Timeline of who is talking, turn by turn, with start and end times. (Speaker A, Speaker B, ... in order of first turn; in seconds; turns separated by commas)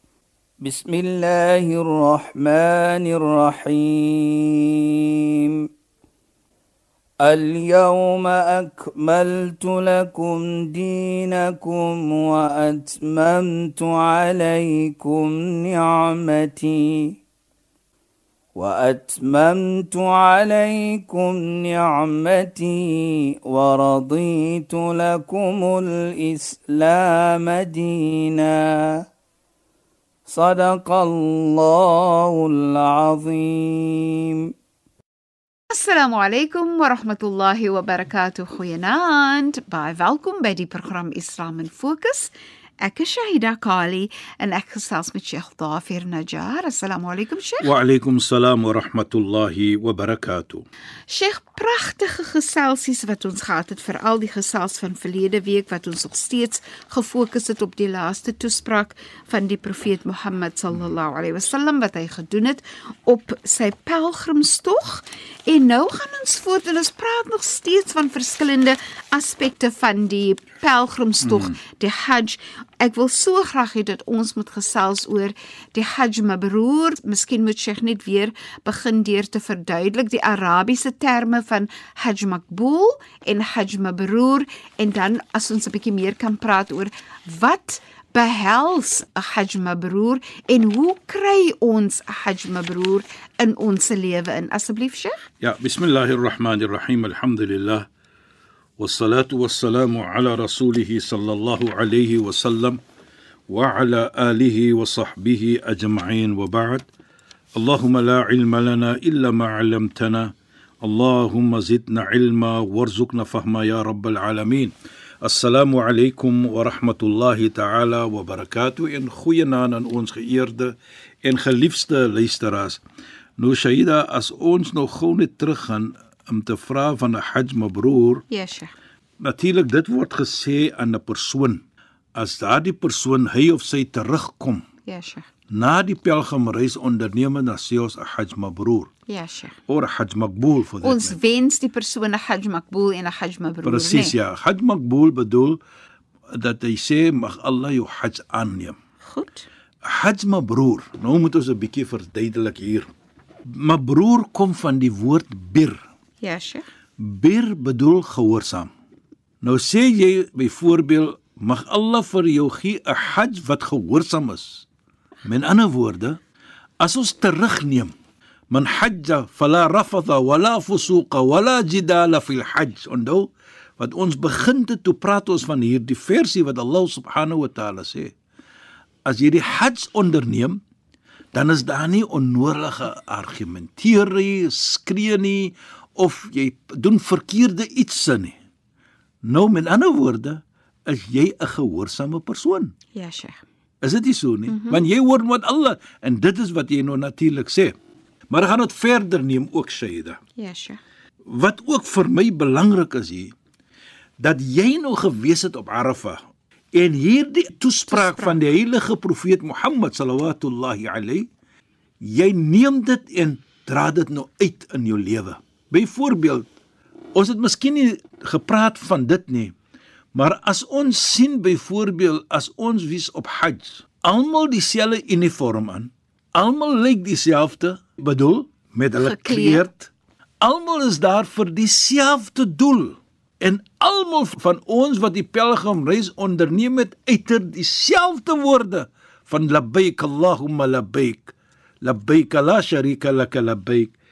Speaker A: 0.6-5.6, Speaker A: 7.2-17.2, Speaker A: 18.5-29.0, Speaker A: 30.3-34.5, Speaker B: 35.7-47.7, Speaker C: 47.6-50.6, Speaker B: 51.1-95.3, Speaker C: 71.2-71.6, Speaker C: 95.4-97.9, Speaker C: 98.8-102.8, Speaker C: 103.5-106.9, Speaker C: 107.5-122.8, Speaker C: 123.4-128.2, Speaker B: 128.3-128.7, Speaker C: 129.2-131.6, Speaker C: 132.2-134.6, Speaker B: 134.9-135.2, Speaker C: 135.5-138.9, Speaker B: 139.1-139.6, Speaker C: 139.7-141.2, Speaker B: 140.8-144.1, Speaker C: 143.6-145.6, Speaker C: 146.3-148.8, Speaker B: 149.0-149.5, Speaker C: 149.8-152.9, Speaker C: 153.5-155.8, Speaker B: 156.2-156.6, Speaker C: 157.0-158.7, Speaker C: 159.4-164.7, Speaker C: 165.2-166.2, Speaker C: 166.8-167.9, Speaker C: 168.5-178.1, Speaker C: 179.1-180.6, Speaker C: 181.3-188.3, Speaker C: 189.2-192.7, Speaker B: 192.9-193.4, Speaker C: 193.8-197.7, Speaker B: 194.5-194.8, Speaker C: 198.3-200.2, Speaker B: 200.4-200.8, Speaker C: 201.2-203.3, Speaker C: 204.2-206.2, Speaker C: 206.7-211.3, Speaker B: 207.9-208.4, Speaker C: 212.0-216.5, Speaker C: 217.1-219.5, Speaker C: 220.1-243.9, Speaker B: 229.0-229.7